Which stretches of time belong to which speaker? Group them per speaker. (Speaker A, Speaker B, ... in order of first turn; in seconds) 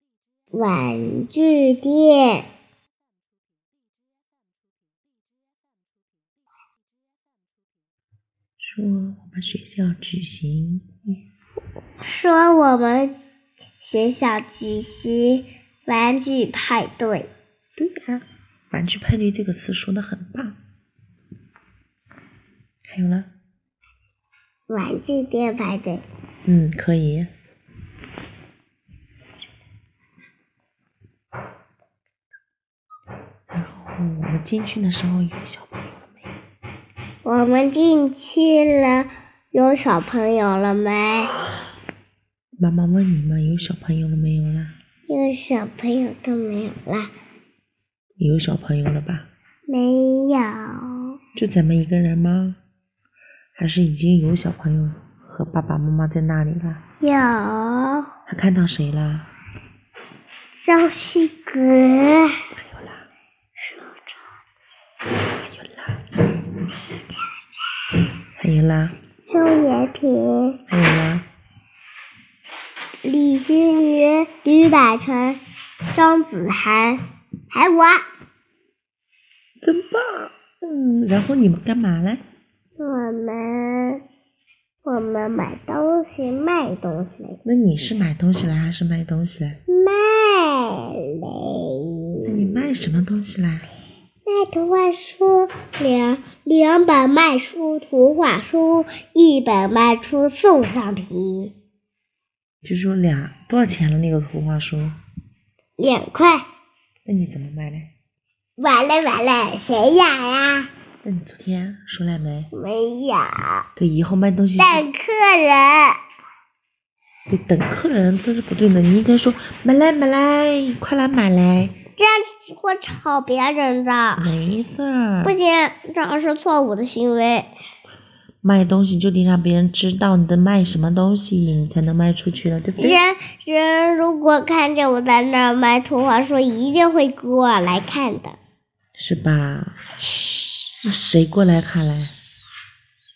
Speaker A: 0.5-2.5, 12.0-13.1, 13.8-17.3, 24.7-26.0, 37.2-41.4, 45.1-47.1, 49.7-51.2, 57.0-58.1, 60.6-62.4, 63.6-64.2, 69.2-70.6, 73.0-75.4, 75.9-78.0, 82.8-84.0, 84.8-87.4, 89.7-92.3, 94.3-101.5, 105.8-106.5, 108.6-110.7, 112.5-113.7, 114.6-116.0, 122.0-124.3, 125.2-127.5, 132.8-138.4
Speaker B: 8.6-10.9, 17.8-20.6, 22.9-23.3, 26.5-27.3, 33.5-36.2, 42.6-44.7, 48.2-49.3, 51.4-52.6, 53.6-56.8, 58.3-59.3, 62.6-63.0, 65.2-66.1, 68.4-69.0, 70.7-71.2, 79.6-82.2, 87.5-89.6, 92.3-93.7, 102.6-105.0, 107.1-107.9, 111.0-112.5, 113.8-114.8, 117.3-121.8, 124.2-125.3, 128.4-133.0, 139.0-139.8, 140.8-142.1